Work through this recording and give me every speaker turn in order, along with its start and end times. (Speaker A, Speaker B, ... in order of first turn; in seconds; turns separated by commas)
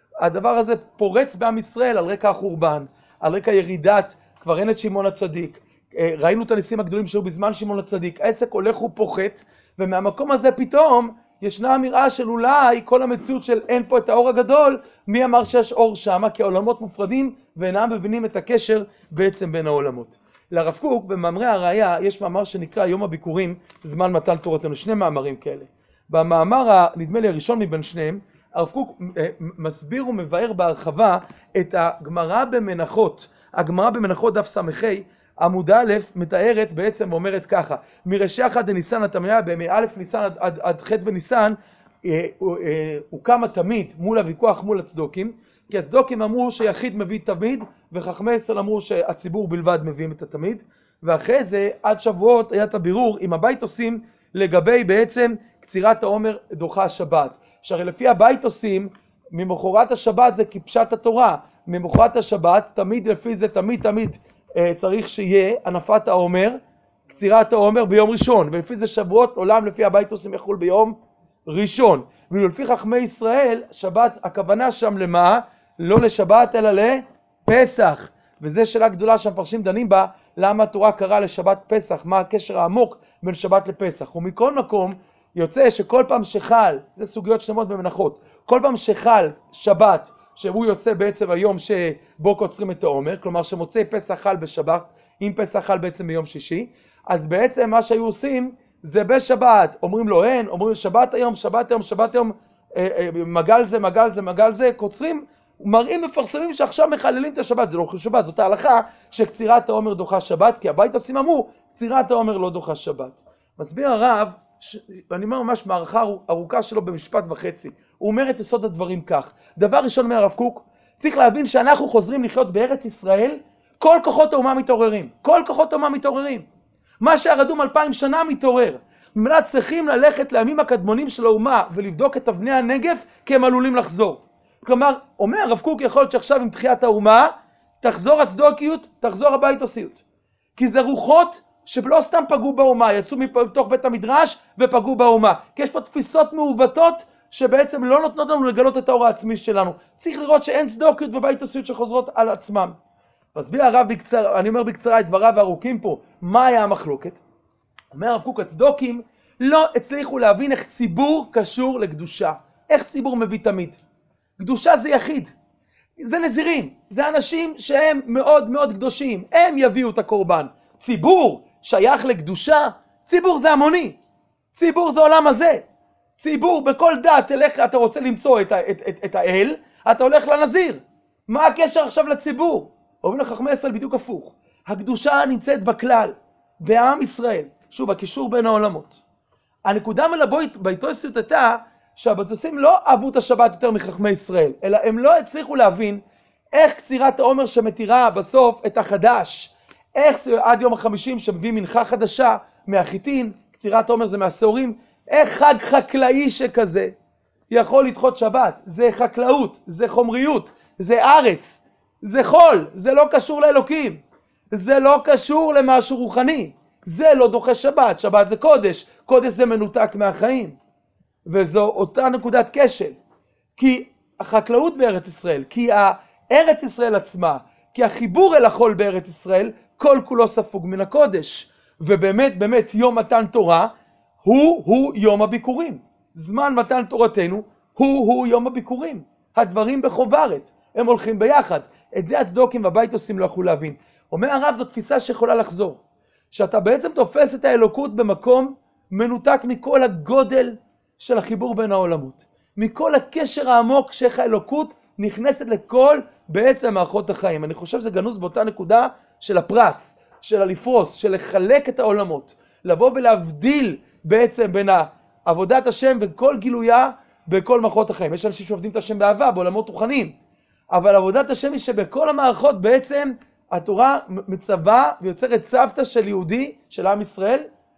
Speaker A: 0.2-126.5, Speaker A: 127.0-140.0, Speaker A: 140.6-152.8, Speaker A: 153.3-157.2, Speaker A: 157.9-163.8, Speaker A: 164.4-165.3, Speaker A: 166.0-174.0, Speaker A: 174.5-175.6, Speaker A: 176.2-189.0, Speaker A: 189.6-196.0, Speaker A: 196.5-206.9, Speaker A: 207.5-220.6, Speaker A: 221.2-223.0, Speaker A: 223.6-233.7, Speaker A: 234.2-270.1, Speaker A: 270.7-277.5